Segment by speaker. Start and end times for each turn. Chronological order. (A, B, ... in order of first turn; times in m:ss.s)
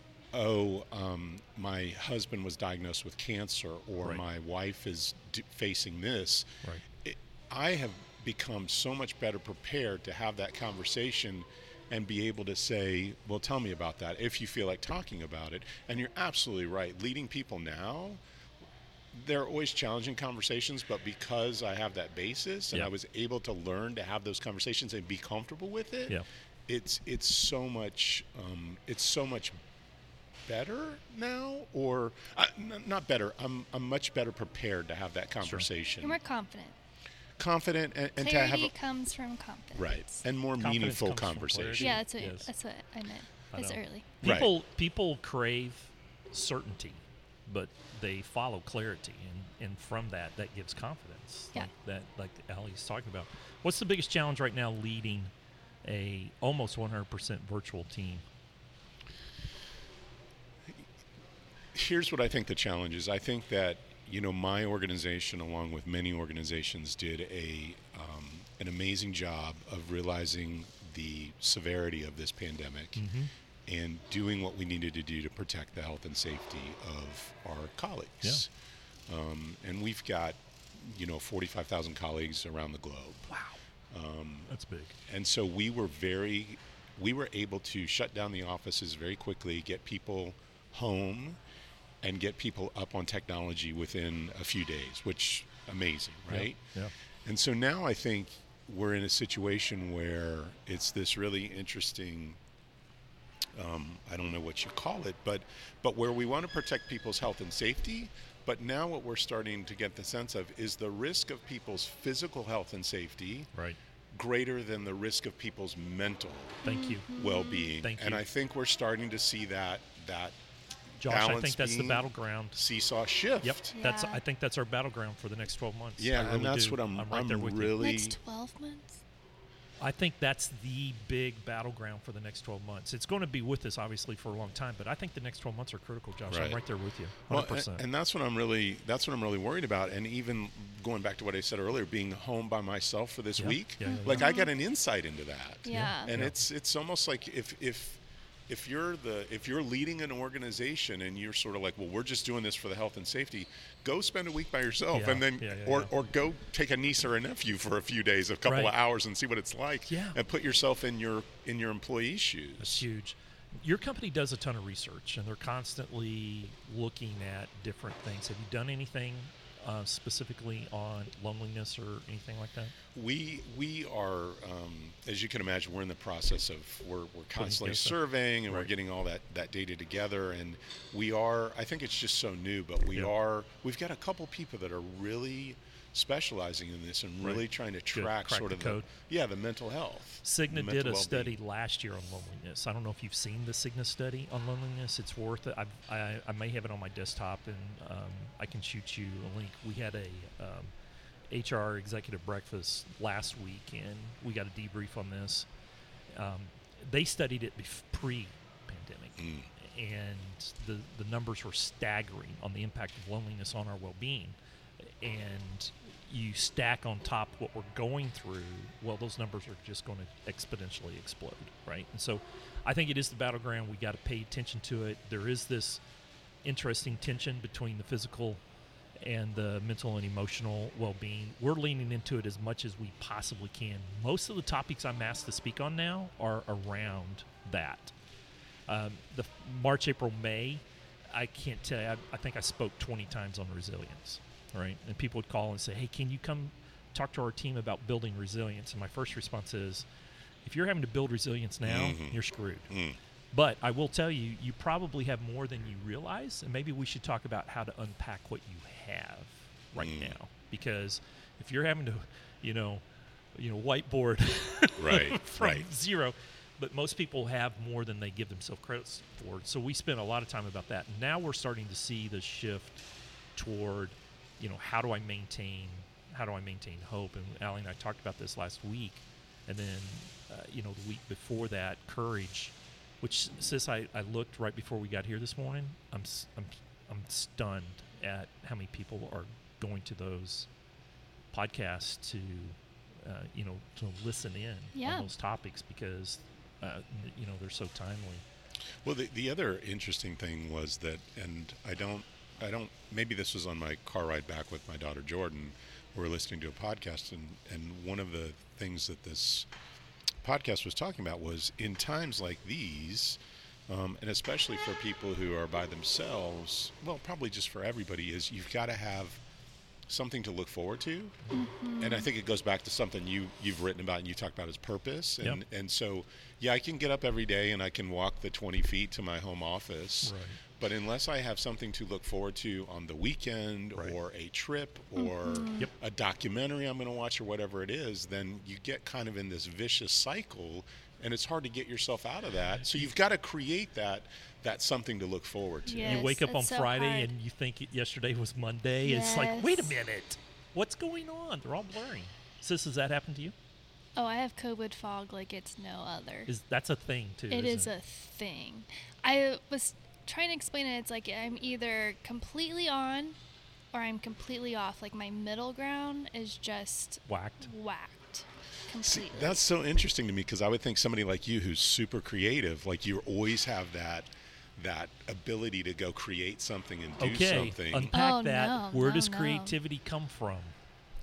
0:00.3-0:06.5 A
0:07.0-0:18.2 A
0:19.1-0:29.6 A
0:30.4-0:36.2 A
0:35.4-0:35.7 B
0:36.0-0:36.8 C
0:37.4-0:38.7 A
0:38.2-0:40.2 C
0:39.7-0:42.0 A
0:40.6-0:42.5 B
0:41.8-0:44.1 C
0:43.5-0:55.3 B
0:44.2-0:44.5 A
0:55.8-0:58.2 B
1:01.7-1:13.0 A
1:13.0-1:13.3 B
1:13.6-1:18.5 A
1:19.1-1:23.3 A
1:23.3-1:23.6 B
1:23.9-1:24.5 A
1:24.5-1:24.9 B
1:25.0-1:31.4 A
1:32.0-1:36.6 A
1:36.3-1:36.9 B
1:37.2-1:42.4 A
1:43.5-1:53.5 A
1:54.1-2:00.4 A
1:56.6-1:57.0 B
1:56.6-1:57.7 C
1:57.8-1:58.2 B
2:01.0-2:02.6 B
2:01.0-2:03.7 A
2:03.4-2:07.8 B
2:03.7-2:04.2 C
2:06.0-2:08.2 A
2:07.8-2:09.0 C
2:09.8-2:17.8 B
2:16.3-2:16.6 A
2:17.3-2:42.8 A
2:23.4-2:24.3 B
2:23.8-2:24.5 C
2:25.6-2:26.1 C
2:25.7-2:26.4 B
2:34.9-2:35.9 B
2:38.4-2:38.7 B
2:39.9-2:40.2 B
2:42.6-2:52.7 B
2:52.9-3:11.3 A
2:57.4-2:58.0 B
3:07.9-3:08.9 B
3:10.2-3:20.7 B
3:21.3-3:25.5 B
3:26.1-3:45.8 B
3:29.2-3:29.5 A
3:46.4-3:48.4 B
3:49.0-3:57.9 B
3:58.7-4:09.8 B
4:10.4-4:12.7 B
4:11.6-4:13.0 A
4:13.3-4:22.8 B
4:19.8-4:20.1 A
4:23.3-4:32.8 B
4:24.8-4:25.7 A
4:33.4-4:50.5 B
4:51.3-4:58.2 B
4:54.7-4:55.1 C
4:58.8-5:09.5 A
5:10.2-5:19.2 A
5:19.9-5:21.2 A
5:21.3-5:22.1 C
5:21.8-5:46.1 A
5:30.0-5:30.4 B
5:35.0-5:35.7 C
5:45.6-5:47.1 C
5:45.8-5:53.3 B
5:48.8-5:49.7 C
5:54.0-5:56.3 C
5:56.3-5:57.7 B
5:57.3-6:03.2 C
6:03.7-6:09.4 C
6:07.1-6:07.5 B
6:08.8-6:17.9 A
6:17.0-6:20.5 B
6:17.9-6:19.6 C